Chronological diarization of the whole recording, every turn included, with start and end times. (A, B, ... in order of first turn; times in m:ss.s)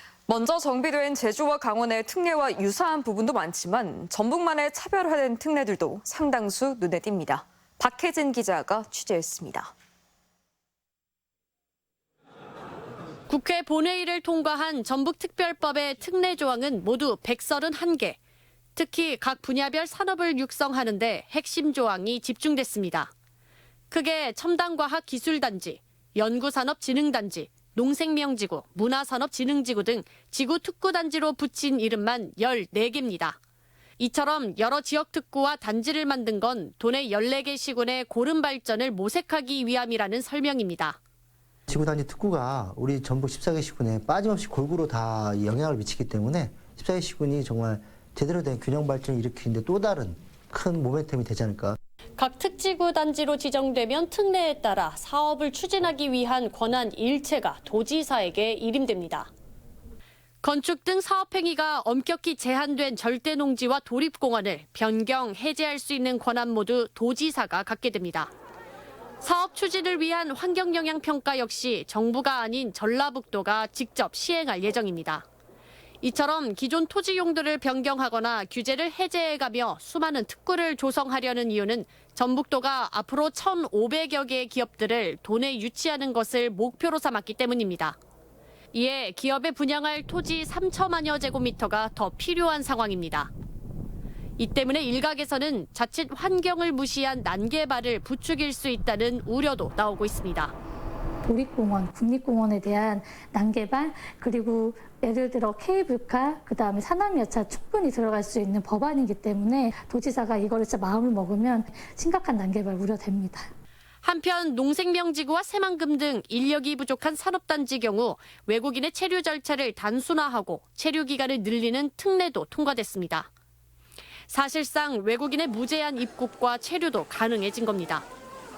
0:00.3-0:09.7 A
0:13.3-0:18.2 B
0:18.8-0:23.1 B
0:23.9-0:33.4 B
0:34.0-0:41.0 B
0:41.7-0:51.8 C
0:52.2-0:59.3 B
1:00.4-1:08.3 B
1:09.2-1:15.2 B
1:16.0-1:28.0 B
1:28.7-1:33.3 B
1:34.4-1:40.5 B
1:41.2-1:53.5 D
1:54.0-2:03.3 B
2:04.3-2:08.0 B